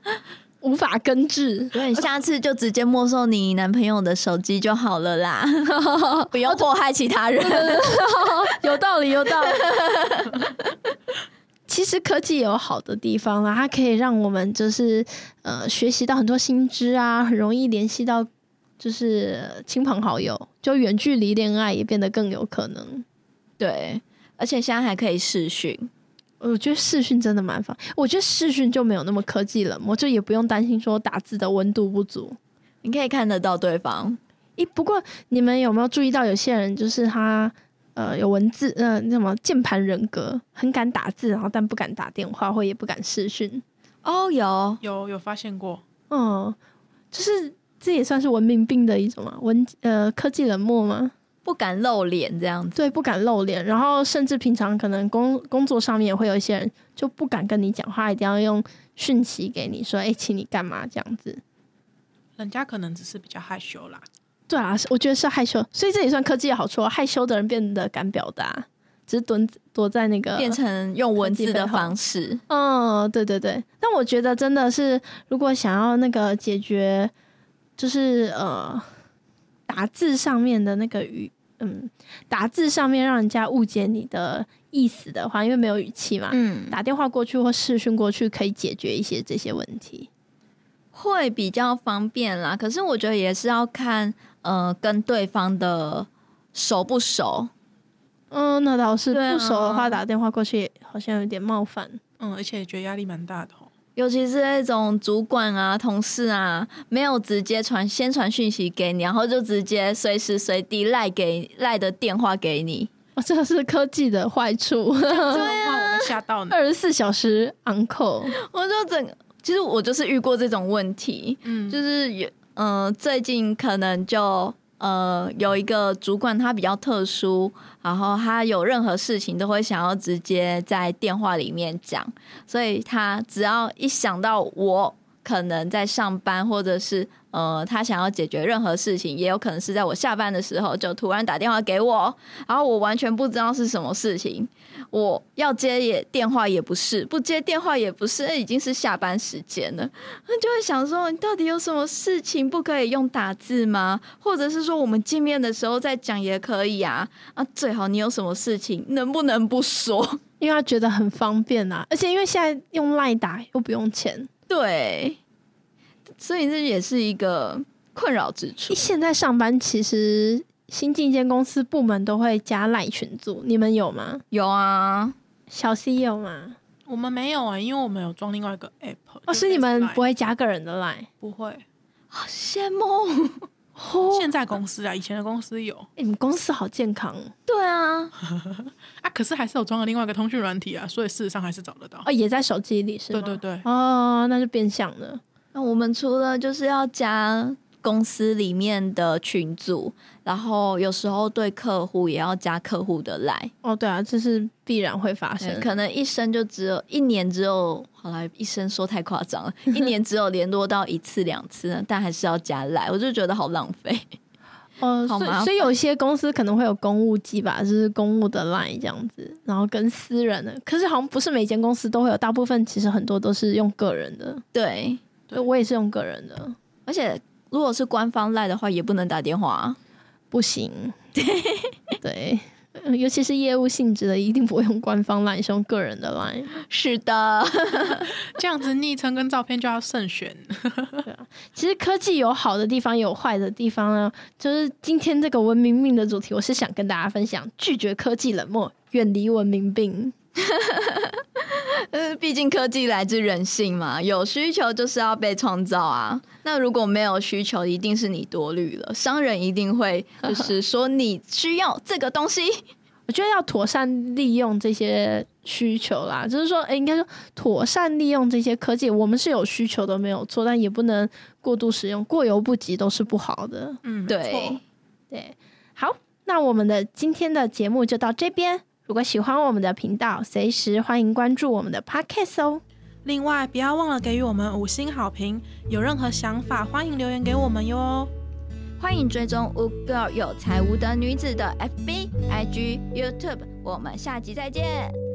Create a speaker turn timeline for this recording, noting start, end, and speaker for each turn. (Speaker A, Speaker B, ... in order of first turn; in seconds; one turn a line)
Speaker A: 0.6-1.8
Speaker B: 1.7-5.8
Speaker A: 5.7-6.6
Speaker B: 6.3-8.0
Speaker A: 7.4-9.6
Speaker B: 9.5-10.4
Speaker A: 11.7-18.3
Speaker A: 18.8-23.1
Speaker B: 23.6-25.9
Speaker A: 26.4-32.4
Speaker B: 32.8-34.2
Speaker A: 34.6-43.6
Speaker B: 44.0-44.8
Speaker C: 44.8-45.8
Speaker A: 46.1-46.6
Speaker A: 47.1-51.1
Speaker B: 51.5-52.8
Speaker A: 52.8-61.4
Speaker C: 62.4-64.0
Speaker A: 64.5-70.6
Speaker B: 70.4-72.4
Speaker A: 71.2-71.9
Speaker A: 72.5-77.1
Speaker A: 77.8-78.9
Speaker A: 79.7-90.1
Speaker B: 86.3-86.8
Speaker B: 90.9-97.5
Speaker A: 98.3-102.0
Speaker B: 99.1-100.0
Speaker C: 102.2-103.7
Speaker B: 104.0-112.9
Speaker A: 113.2-115.5
Speaker C: 115.1-116.6
Speaker B: 115.2-116.1
Speaker A: 116.5-118.3
Speaker B: 118.3-160.2
Speaker C: 121.5-121.8
Speaker A: 160.4-164.3
Speaker B: 164.5-165.2
Speaker B: 166.2-168.8
Speaker A: 168.7-174.2
Speaker B: 174.3-175.2
Speaker A: 175.5-176.6
Speaker C: 176.9-180.0
Speaker A: 179.3-181.1
Speaker C: 181.2-181.6
Speaker B: 182.1-183.5
Speaker A: 183.8-184.3
Speaker C: 184.1-185.9
Speaker A: 186.0-187.3
Speaker B: 187.5-188.1
Speaker C: 188.2-192.1
Speaker A: 192.1-195.2
Speaker C: 193.1-193.7
Speaker B: 195.5-203.5
Speaker A: 203.6-205.7
Speaker B: 205.4-214.1
Speaker A: 214.8-224.4
Speaker B: 215.1-215.7
Speaker B: 224.6-225.0
Speaker A: 225.3-226.6
Speaker B: 226.9-229.8
Speaker A: 230.3-231.0
Speaker B: 231.2-231.7
Speaker A: 232.0-236.6
Speaker B: 236.7-238.2
Speaker C: 238.3-241.0
Speaker A: 241.1-250.1
Speaker B: 250.4-262.7
Speaker A: 263.1-273.8
Speaker C: 273.8-274.6
Speaker B: 274.1-274.6
Speaker A: 275.1-282.6
Speaker C: 283.1-288.1
Speaker B: 288.8-295.0